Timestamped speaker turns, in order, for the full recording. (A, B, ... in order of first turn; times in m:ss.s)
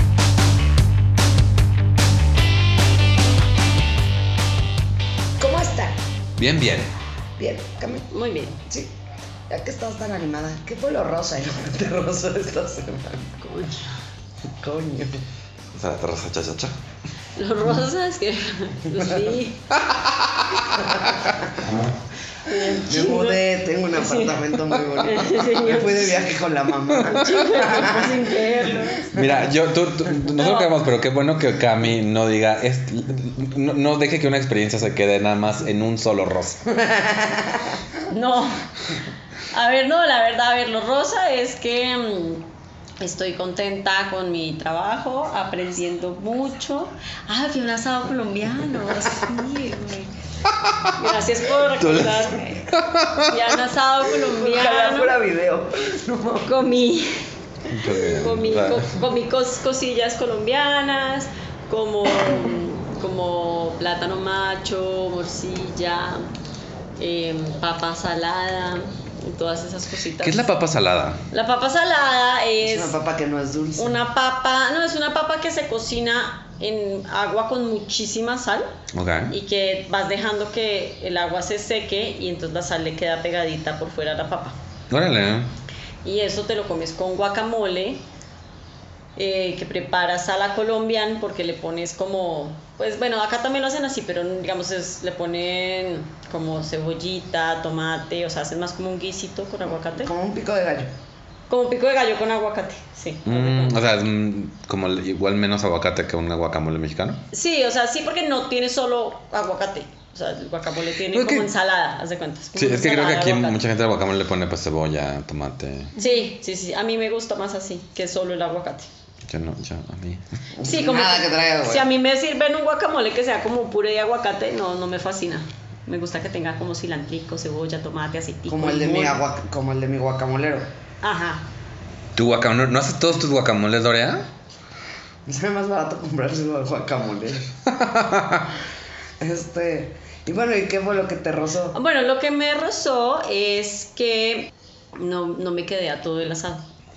0:05.4-0:06.0 A
0:06.4-0:06.9 B
0:07.4-0:08.1 A
0:08.1-0:08.6 C
0:09.5-0:13.3 A
0:13.4-0:13.9 C
0:14.6-0:15.2 A
0:15.7-0:16.7 B
0:17.4-0:19.6 C
0:19.9-0:21.1 B
0:22.4-0:23.4 C
0:22.6-0:28.2 A
0:23.9-0:24.3 C
0:25.0-0:26.2 C
0:27.0-0:29.1 C
0:29.1-0:36.6 B
0:29.1-0:29.4 A
0:30.4-0:30.7 C
0:36.7-0:37.8 A
0:38.1-0:38.6 C
0:39.5-0:42.4 C
0:43.0-0:50.1 C
0:50.6-0:50.9 B
0:51.0-0:52.6 C
0:51.8-0:53.4 B
0:53.2-0:55.1 C
0:54.2-0:56.6 A
0:56.4-0:57.2 C
0:57.7-0:58.9 B
0:57.9-1:06.2 C
1:07.0-1:10.5 C
1:10.2-1:11.2 B
1:11.3-1:12.9 C
1:12.6-1:14.0 A
1:13.8-1:18.7 C
1:18.9-1:19.3 B
1:19.3-1:24.6 C
1:24.9-1:25.5 B
1:26.0-1:28.0 C
1:29.2-1:40.1 C
1:39.8-1:40.9 A
1:41.5-1:43.8 C
1:43.2-1:47.2 B
1:47.3-1:53.6 C
1:51.1-1:51.5 B
1:52.6-1:55.9 B
1:55.9-1:58.9 C
1:59.3-2:00.2 B
2:00.6-2:01.9 A
2:00.6-2:09.2 C
2:08.5-2:10.6 A
2:11.0-2:11.4 C
2:12.2-2:14.2 B
2:15.2-2:17.5 A
2:17.7-2:18.5 B
2:19.2-2:21.8 A
2:21.7-2:26.6 C